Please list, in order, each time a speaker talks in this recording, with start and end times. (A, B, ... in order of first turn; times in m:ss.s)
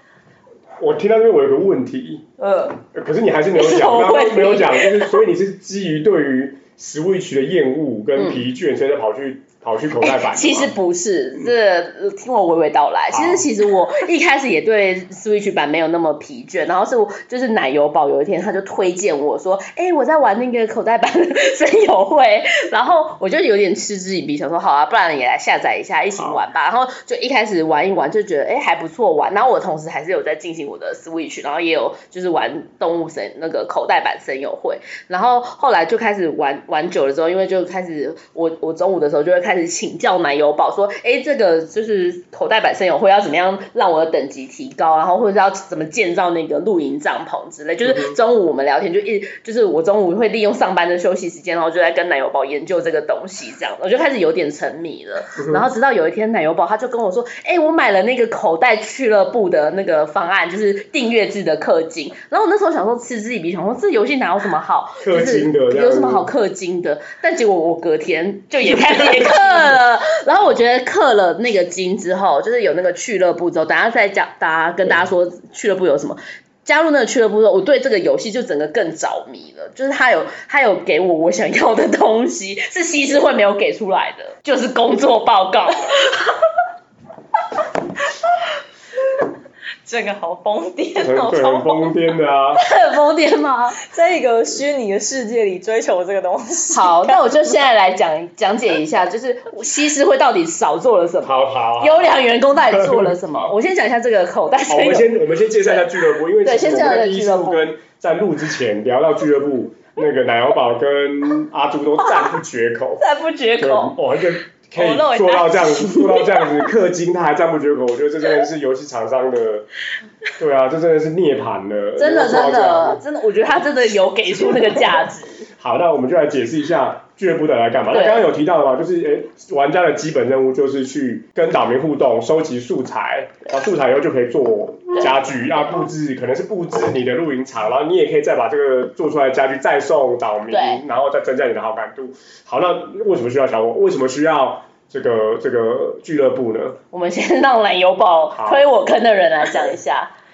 0:00.8-0:02.2 A
0:02.4-0:02.8 B
0:02.9-0:10.7 A
0:03.5-0:05.2 B
0:08.2-0:08.4 B
0:10.0-1:26.0 B
0:13.1-0:13.5 A
0:26.2-0:26.4 A
0:47.8-0:48.2 A
1:05.0-1:06.3 A
1:29.8-1:32.0 C
1:31.0-1:32.6 A
1:32.6-1:33.8 B
1:33.8-1:37.2 C
1:36.7-1:45.2 B
1:41.2-1:42.1 A
1:42.6-1:43.5 A
1:44.7-1:53.0 A
1:46.4-1:47.7 B
1:53.0-1:54.0 B
1:53.6-1:59.7 A
1:54.8-1:56.5 C
2:00.4-2:03.0 A
2:02.0-2:05.4 B
2:05.6-2:26.8 A
2:07.9-2:08.2 B
2:20.5-2:20.8 B
2:26.9-2:30.1 B
2:28.3-2:28.6 A